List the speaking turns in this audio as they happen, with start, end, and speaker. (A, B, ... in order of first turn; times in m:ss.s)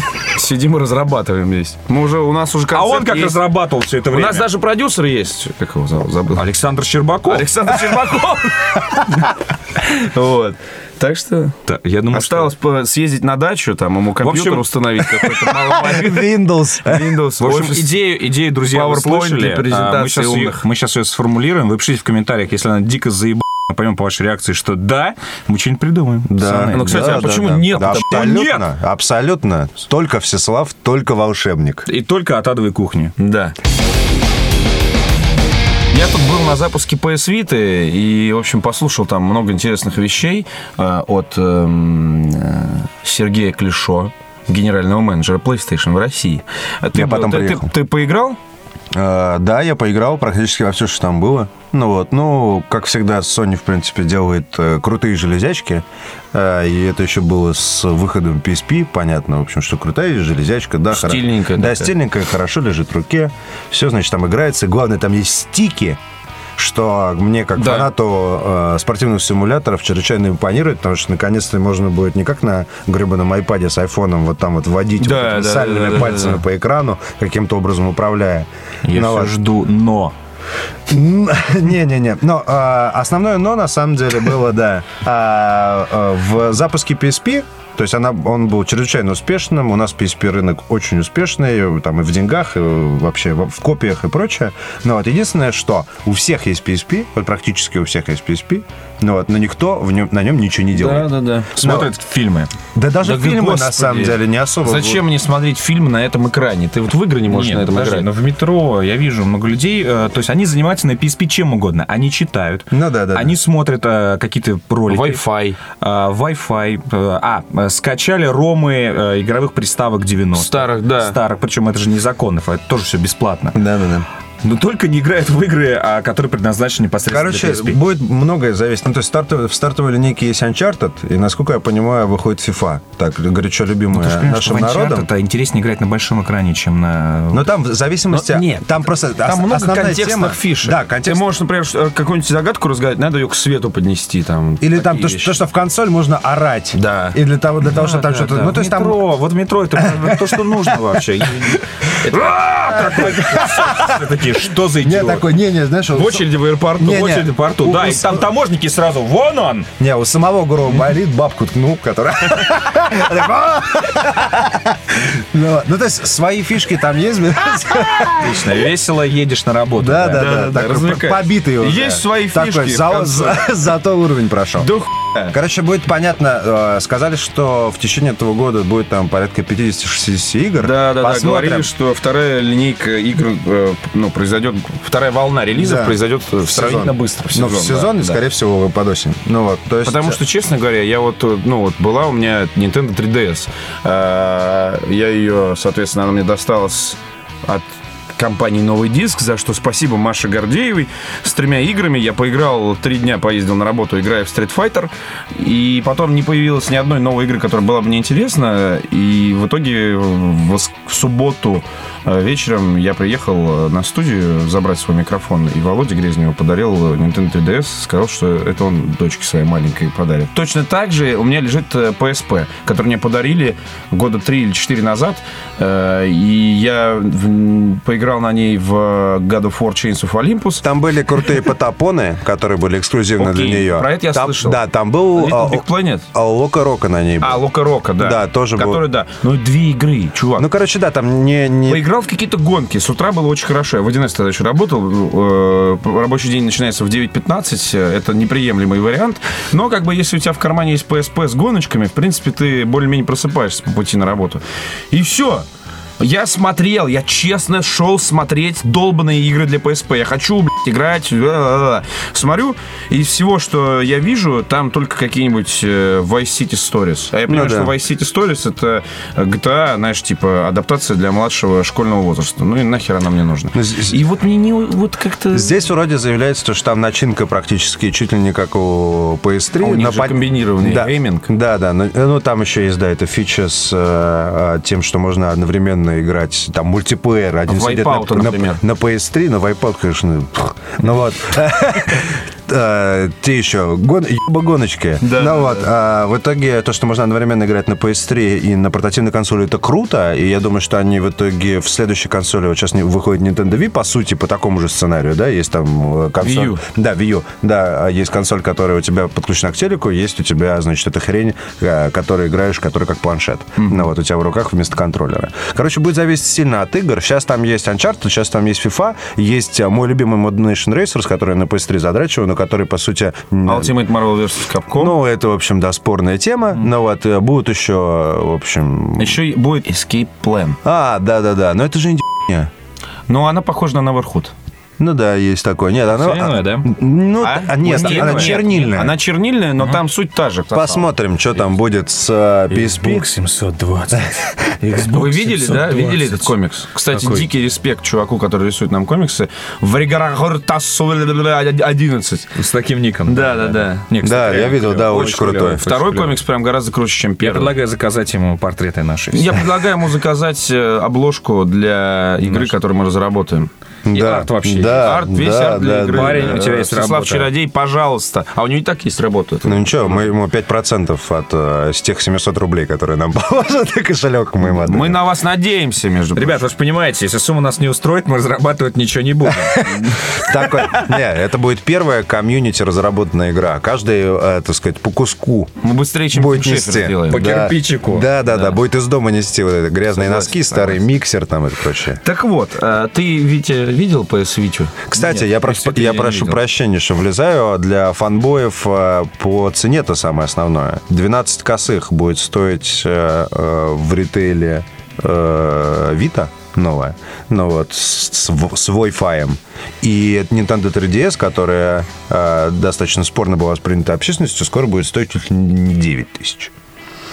0:00.3-0:03.4 A
0:02.7-0:04.5 B
0:04.1-0:06.4 A
0:06.4-0:07.5 B
0:07.3-0:11.6 A
0:11.7-0:12.5 B
0:12.1-0:18.0 A
0:14.2-0:14.7 B
0:15.6-0:17.2 C
0:17.4-0:27.3 B
0:18.7-0:20.6 A
0:26.3-0:31.9 C
0:26.7-0:28.4 A
0:27.8-0:28.7 B
0:31.9-0:33.1 B
0:33.2-0:33.6 A
0:35.9-0:48.4 A
0:46.9-0:47.7 C
0:48.9-1:06.0 C
1:00.9-1:01.9 A
1:06.6-1:19.4 C
1:07.6-1:07.9 A
1:15.0-1:16.4 A
1:18.8-1:20.1 B
1:20.9-1:41.9 C
1:40.7-1:41.6 A
1:41.6-1:42.5 B
1:42.8-1:45.0 C
1:43.0-1:48.1 A
1:47.3-1:55.2 B
1:52.7-1:53.4 C
1:54.9-1:55.6 A
1:55.8-2:03.6 B
2:00.3-2:01.2 A
2:03.6-2:04.1 C
2:04.4-2:07.8 B
2:07.1-2:15.1 C
2:13.9-2:17.5 B
2:17.3-2:21.3 C
2:18.1-2:25.4 A
2:24.6-2:29.1 C
2:26.7-2:27.2 A
2:27.6-2:35.3 B
2:29.8-2:31.0 C
2:32.0-2:33.0 A
2:32.7-2:34.1 C
2:34.8-2:38.2 C
2:35.9-2:37.2 A
2:36.8-2:39.7 B
2:39.8-2:48.5 C
2:48.2-2:50.3 B
2:49.8-2:54.7 C
2:50.1-2:53.5 A
2:54.6-2:55.3 A
2:55.3-3:01.7 C
3:00.6-3:08.2 A
3:05.6-3:10.2 C
3:09.8-3:50.6 A
3:50.6-3:57.4 C
3:53.2-3:54.6 A
3:55.1-3:56.0 A
3:57.2-4:00.5 A
3:58.0-3:58.8 C
4:00.4-4:01.8 C
4:01.7-4:15.5 A
4:16.0-4:35.5 A
4:27.3-4:27.7 C
4:33.6-4:34.0 C
4:35.3-5:23.7 C
4:39.6-4:41.3 A
4:47.5-4:48.6 A
4:55.0-4:55.7 A
5:06.2-5:06.6 A
5:13.6-5:13.8 A
5:23.5-5:25.0 A
5:24.7-5:29.2 C
5:29.0-5:30.6 A
5:30.6-5:32.5 C
5:33.1-5:34.3 A
5:34.8-5:39.0 C
5:35.9-5:36.7 B
5:37.2-5:41.4 A
5:37.6-5:38.5 B
5:40.5-5:43.1 C
5:42.5-5:46.3 B
5:44.9-5:52.3 A
5:46.9-5:47.3 B
5:52.4-5:56.1 B
5:53.1-5:53.9 A
5:54.0-5:55.8 C
5:54.9-5:57.5 A
5:57.2-5:59.4 B
5:59.1-6:03.5 A
6:02.2-6:02.5 B
6:03.9-6:06.5 C
6:03.9-6:05.0 B
6:04.7-6:10.1 A
6:05.9-6:07.3 B
6:09.4-6:15.0 C
6:14.5-6:16.4 A
6:16.2-6:20.0 B
6:19.5-6:25.5 C
6:25.6-6:27.3 A
6:26.1-6:32.0 C
6:27.1-6:28.1 B
6:28.2-6:28.6 A
6:30.0-6:30.8 A
6:32.0-6:34.9 A
6:34.9-6:56.5 C
6:35.0-6:36.4 B